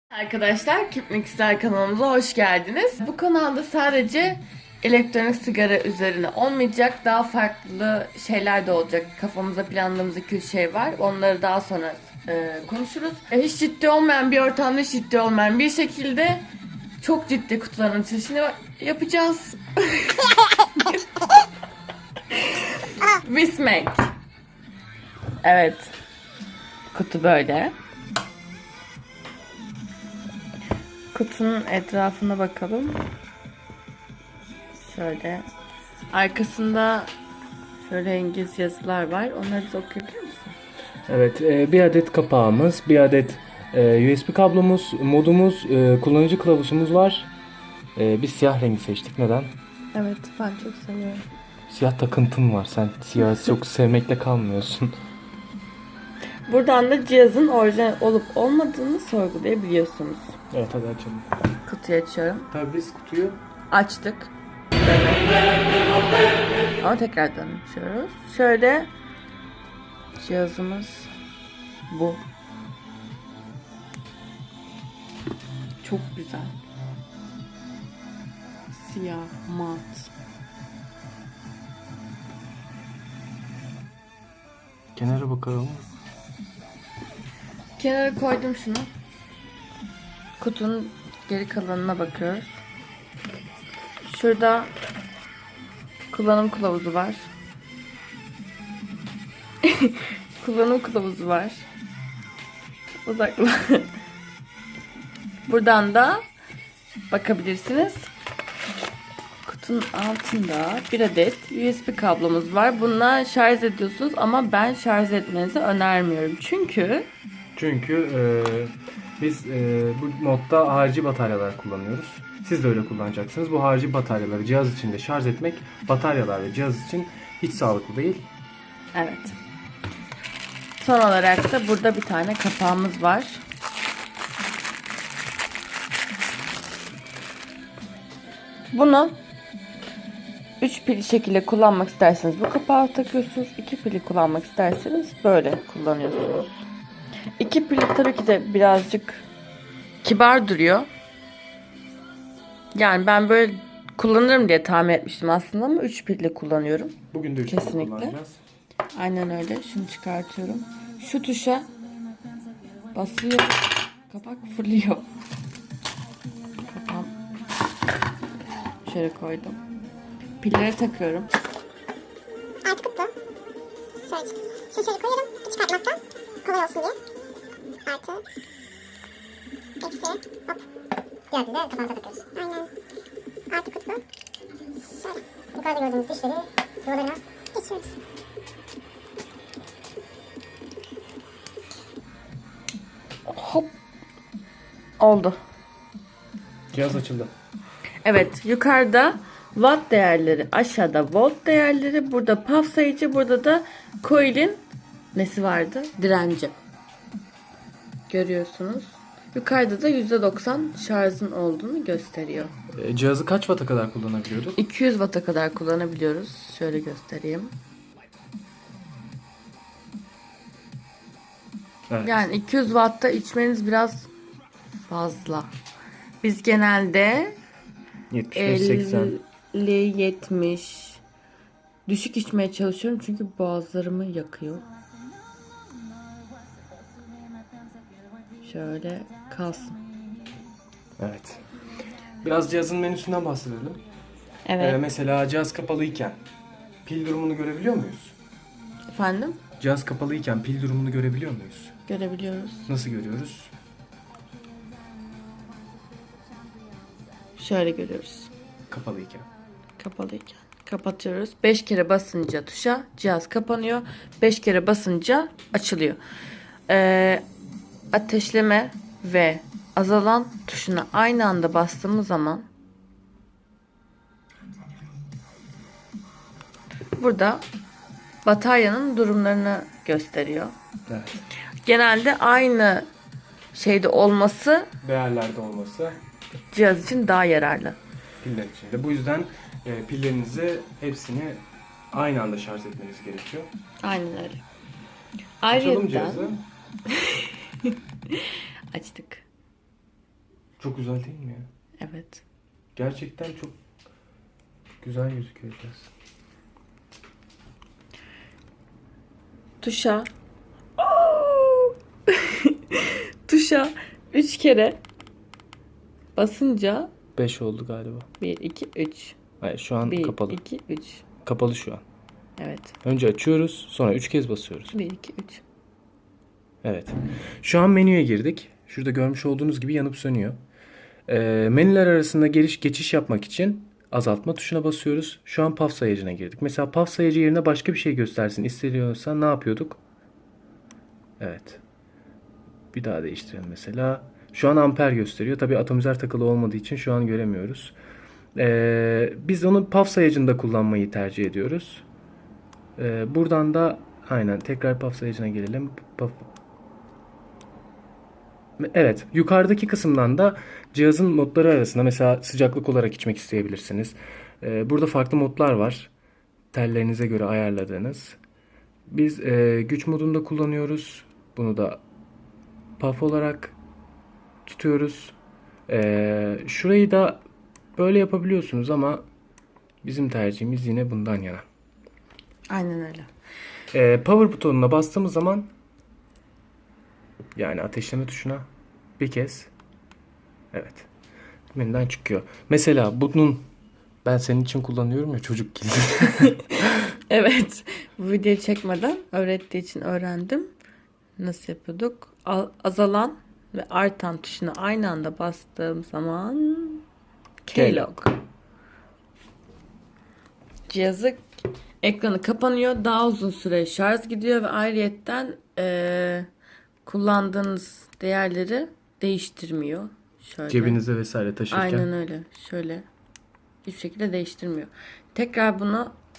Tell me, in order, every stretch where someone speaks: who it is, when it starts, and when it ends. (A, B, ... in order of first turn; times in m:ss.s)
0:00.1-0:16.5 A
0:17.0-0:21.0 A
0:22.3-0:24.1 A
0:25.4-0:26.0 A
0:26.9-0:27.8 A
0:31.1-0:33.1 A
0:34.8-0:35.5 A
0:36.1-0:37.1 A
0:37.8-0:40.6 A
0:41.1-0:47.3 B
0:48.0-0:49.6 B
0:49.9-0:51.2 A
0:51.7-0:55.0 B
0:56.5-1:00.4 A
1:00.5-1:01.3 B
1:01.7-1:02.5 A
1:02.5-1:03.4 B
1:03.7-1:04.3 A
1:06.8-1:08.9 A
1:10.2-1:11.1 A
1:11.9-1:12.2 A
1:15.8-1:16.6 A
1:18.7-1:20.1 A
1:25.0-1:25.9 B
1:27.8-1:28.9 A
1:30.4-1:32.6 A
1:34.1-1:34.7 A
1:36.1-1:37.3 A
1:39.6-1:41.7 A
1:43.0-1:43.9 A
1:45.5-1:46.3 A
1:47.1-1:48.1 A
1:49.4-1:57.1 A
1:57.6-2:08.3 B
2:08.9-2:09.4 A
2:10.8-2:13.4 A
2:18.7-2:19.2 A
2:20.6-2:26.5 A
2:27.4-2:29.3 A
2:30.0-2:30.9 A
2:32.7-2:38.2 A
2:37.1-2:38.4 B
2:38.9-2:41.7 A
2:42.9-2:45.1 A
2:46.7-2:47.1 A
2:48.8-2:49.6 A
2:50.4-2:51.3 A
2:52.6-2:53.1 C
2:54.1-2:57.0 C
2:57.9-2:58.2 C
2:59.8-3:00.6 C
3:01.3-3:02.7 C
3:03.5-3:04.0 C
3:05.0-3:08.0 C
3:13.3-3:13.7 A
3:15.0-3:15.4 A
3:16.7-3:17.3 B
3:18.0-3:24.6 A
3:25.2-3:26.6 A
3:28.1-3:32.5 A
3:32.7-3:34.6 B
3:34.6-3:37.6 A
3:41.9-3:42.2 B
3:42.0-3:44.1 A
3:44.9-3:45.5 A
3:46.2-3:47.4 A
3:48.1-3:49.2 B
3:48.4-3:51.0 A
3:51.9-3:54.6 A
3:58.4-3:59.8 A
4:01.0-4:01.4 B
4:02.2-4:03.8 B
4:04.5-4:04.8 A
4:04.6-4:06.2 B
4:06.8-4:08.2 B
4:08.9-4:09.4 A
4:09.6-4:11.8 B
4:11.9-4:12.7 A
4:12.7-4:13.5 B
4:17.4-4:18.3 A
4:18.7-4:19.3 B
4:19.8-4:26.0 A
4:26.7-4:27.2 A
4:27.9-4:32.5 A
4:37.0-4:37.4 A
4:38.2-4:40.5 A
4:40.9-4:41.2 B
4:41.6-4:42.9 A
4:43.5-4:44.7 A
4:44.8-4:46.0 B
4:46.5-4:47.8 A
4:48.2-4:53.5 B
4:53.8-4:54.4 A
4:55.4-4:56.3 A
4:55.5-4:56.4 B
4:56.9-4:59.2 A
5:00.6-5:01.5 B
5:01.8-5:02.2 A
5:02.8-5:03.6 B
5:04.8-5:05.9 B
5:09.6-5:10.1 A
5:10.8-5:14.8 A
5:16.2-5:16.9 A
5:17.2-5:18.1 B
5:18.2-5:19.2 A
5:19.4-5:20.4 B
5:19.8-5:21.0 A
5:21.2-5:21.8 B
5:22.4-5:22.7 A
5:22.8-5:24.8 B
5:24.7-5:25.4 A
5:26.6-5:30.4 B
5:31.1-5:39.8 B
5:41.2-5:41.6 B
5:42.7-5:47.8 B
5:48.4-5:51.8 B
5:52.8-5:56.3 B
5:58.6-6:05.9 B
6:06.5-6:08.2 B
6:08.9-6:11.8 B
6:12.8-6:13.6 B
6:14.5-6:15.2 B
6:15.7-6:17.2 B
6:17.8-6:19.1 B
6:19.8-6:21.4 B
6:22.5-6:23.1 A
6:23.7-6:25.5 B
6:27.4-6:28.5 B
6:29.0-6:29.5 B
6:30.5-6:30.9 B
6:31.5-6:33.5 B
6:34.0-6:36.8 B
6:37.1-6:40.5 A
6:41.2-6:46.8 A
6:47.4-6:48.2 A
6:47.5-6:47.9 B
6:50.7-6:51.2 A
6:51.8-6:56.3 A
6:56.8-7:00.8 A
7:00.5-7:01.9 B
7:01.5-7:02.9 A
7:03.6-7:06.0 A